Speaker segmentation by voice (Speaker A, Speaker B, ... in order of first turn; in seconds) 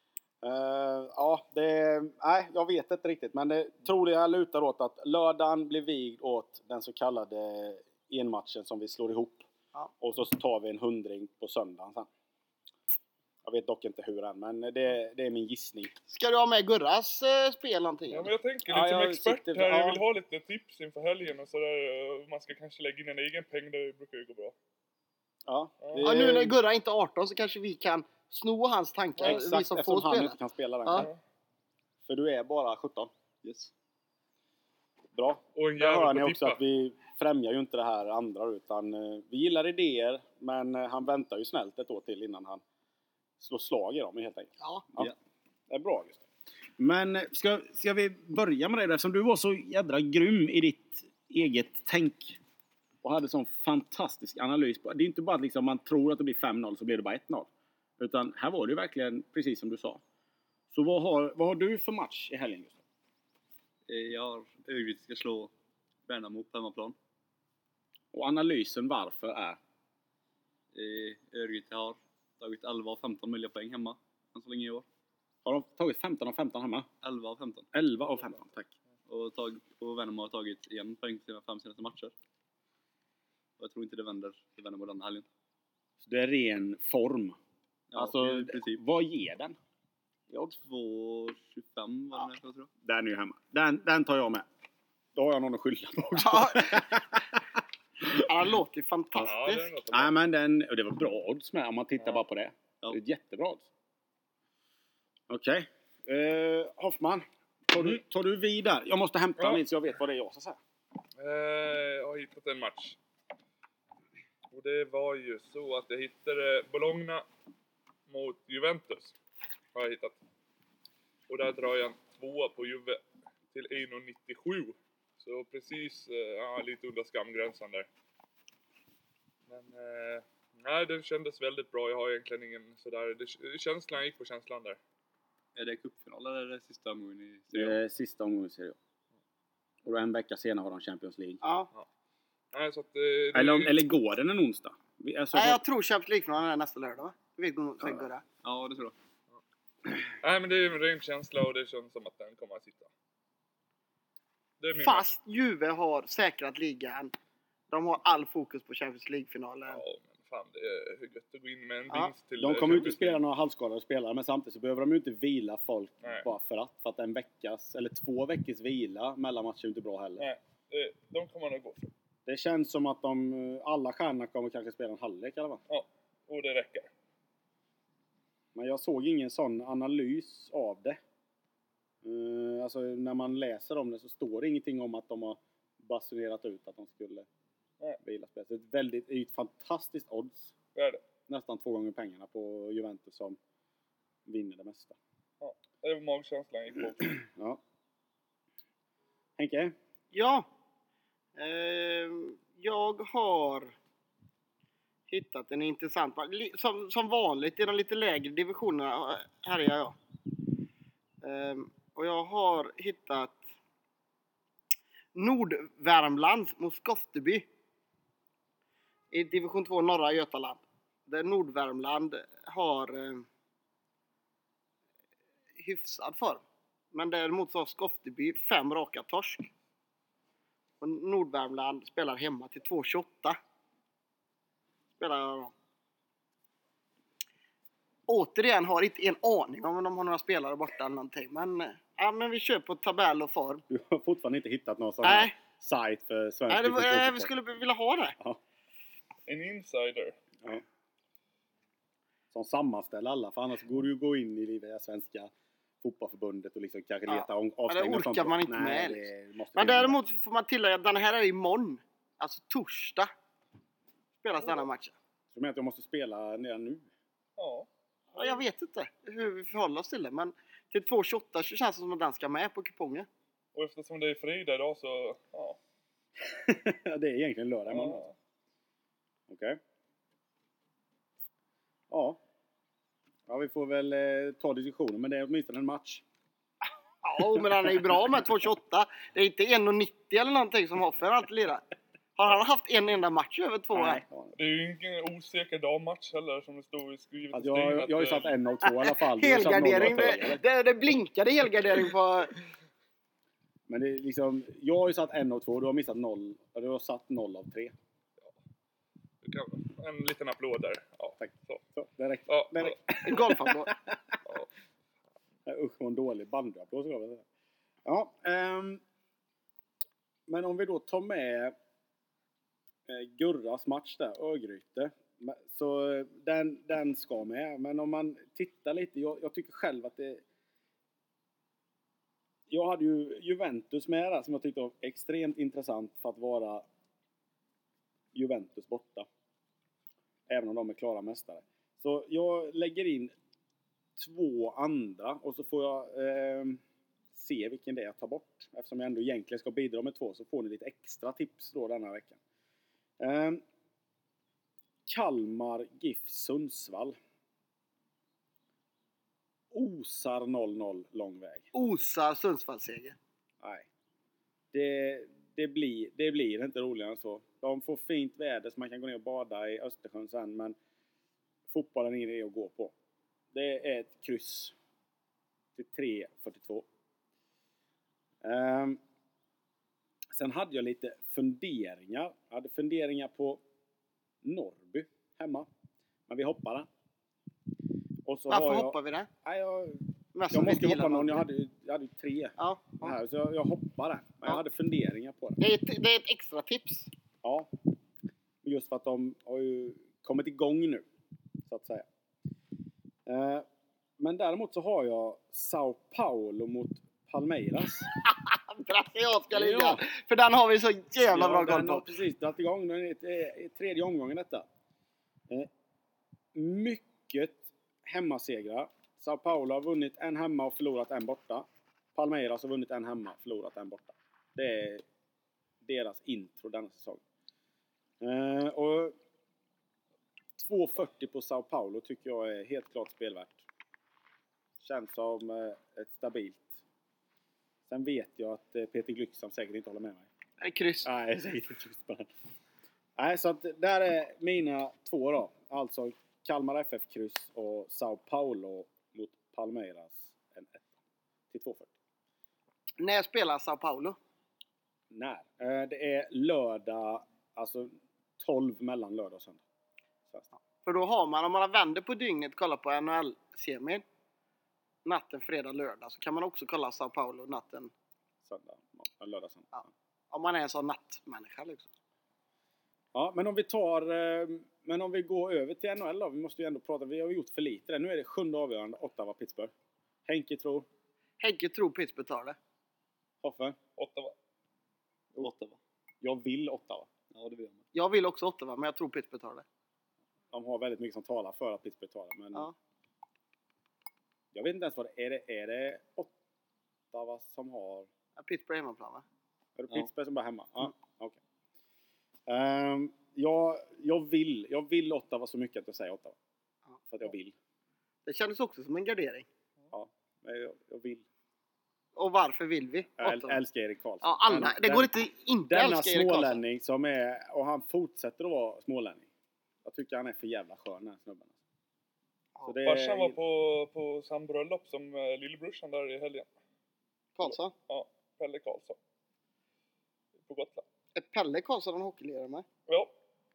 Speaker A: 0.4-9.5, 10.0-12.1, 13.4-15.9, 18.7-20.0, 25.5-26.6, 29.2-31.1, 32.0-33.1, 35.1-42.6, 43.4-45.1, 45.7-46.2, 46.8-52.4, 53.0-60.0, 60.7-62.8, 68.1-69.6, 75.4-76.9, 77.7-78.7, 86.0-87.4, 88.0-89.5, 92.8-94.5, 95.1-97.3, 99.9-103.7, 105.3-110.6, 137.5-138.8, 139.8-141.4, 143.3-145.6, 162.4-170.2, 172.2-175.6, 178.5-181.0, 182.0-187.3, 188.0-190.5, 191.3-193.4, 194.2-195.0, 197.0-197.6, 199.4-199.7, 243.7-247.3, 252.3-255.3, 255.8-260.0, 265.3-266.8, 276.2-278.0, 279.3-279.6, 281.9-282.2, 283.3-286.0, 293.7-294.4, 297.3-300.4, 303.7-307.7, 311.2-313.9, 315.4-317.2, 317.9-318.8, 320.3-321.5, 322.9-330.2, 332.5-336.6, 338.1-339.1, 340.3-343.1, 343.9-346.6, 347.1-352.2, 353.0-353.4, 354.9-356.9, 359.5-361.4, 363.4-363.7, 364.5-370.6, 371.5-372.7, 373.3-374.5, 375.5-376.6, 378.2-378.8, 380.1-383.4, 384.2-385.5, 386.1-386.7, 388.1-395.4, 397.2-397.5, 398.4-400.8, 401.5-401.9, 403.1-403.4, 404.0-407.9, 409.3-409.8, 411.1-414.4, 416.3-424.8, 425.6-427.0, 428.0-428.9, 430.4-433.4, 434.6-436.6, 437.7-440.1, 440.8-442.1, 443.0-450.7, 451.3-451.7, 454.9-459.4, 468.2-469.6, 472.9-479.5, 480.1-480.7, 483.2-483.6, 486.0-486.9, 490.3-492.5, 494.3-496.1, 496.9-497.9, 499.6-501.2, 502.3-506.1, 506.9-507.3, 509.7-511.0, 513.0-514.9, 515.5-519.1, 519.6-521.4, 522.4-523.2
Speaker B: 16.1-18.3, 26.0-31.1, 96.2-97.0, 98.2-99.7, 141.4-141.7, 145.3-148.2, 154.8-157.1, 157.7-159.8, 200.1-200.4, 201.3-203.7, 205.1-210.0, 211.2-213.4, 215.1-217.4, 219.1-223.2, 225.6-229.5, 230.8-233.4, 235.0-235.5, 238.1-243.6, 245.0-245.3, 246.5-248.2, 257.1-263.1, 264.2-264.9, 268.1-273.1, 287.0-291.6, 292.1-294.0, 298.6-302.4, 313.0-313.7, 361.5-362.9, 388.3-389.1, 390.1-391.2, 392.4-393.0, 395.4-396.9, 407.9-411.9, 440.4-440.9, 452.8-454.0, 460.6-463.8, 464.8-467.7, 469.5-471.7, 481.2-482.4, 487.7-489.4, 498.1-499.0, 508.0-509.3, 511.9-513.4, 514.0-516.4, 527.1-527.5, 530.9-532.5
Speaker C: 18.1-24.5, 25.8-26.1, 35.5-36.6, 99.2-100.1, 109.4-109.6, 111.2-113.0, 114.5-117.2, 118.1-119.2, 119.7-120.2, 121.3-123.0, 123.5-127.9, 129.5-134.8, 142.5-143.8, 150.2-152.9, 154.6-155.1, 159.7-163.2, 166.0-166.3, 170.2-171.9, 175.7-176.9, 190.7-191.0, 195.4-197.1, 249.3-250.2, 264.3-264.6, 267.4-268.4, 273.5-275.6, 277.7-278.1, 294.3-298.3, 309.2-311.6, 312.3-312.8, 483.8-484.1, 522.6-526.3, 527.2-528.8, 530.2-530.6
Speaker D: 33.4-33.7, 63.9-65.5, 66.0-67.0, 70.7-74.8, 77.0-77.7, 79.1-82.1, 83.6-85.3, 87.9-88.8, 90.3-92.7, 135.5-137.8, 148.4-148.9, 485.2-485.6, 487.1-487.6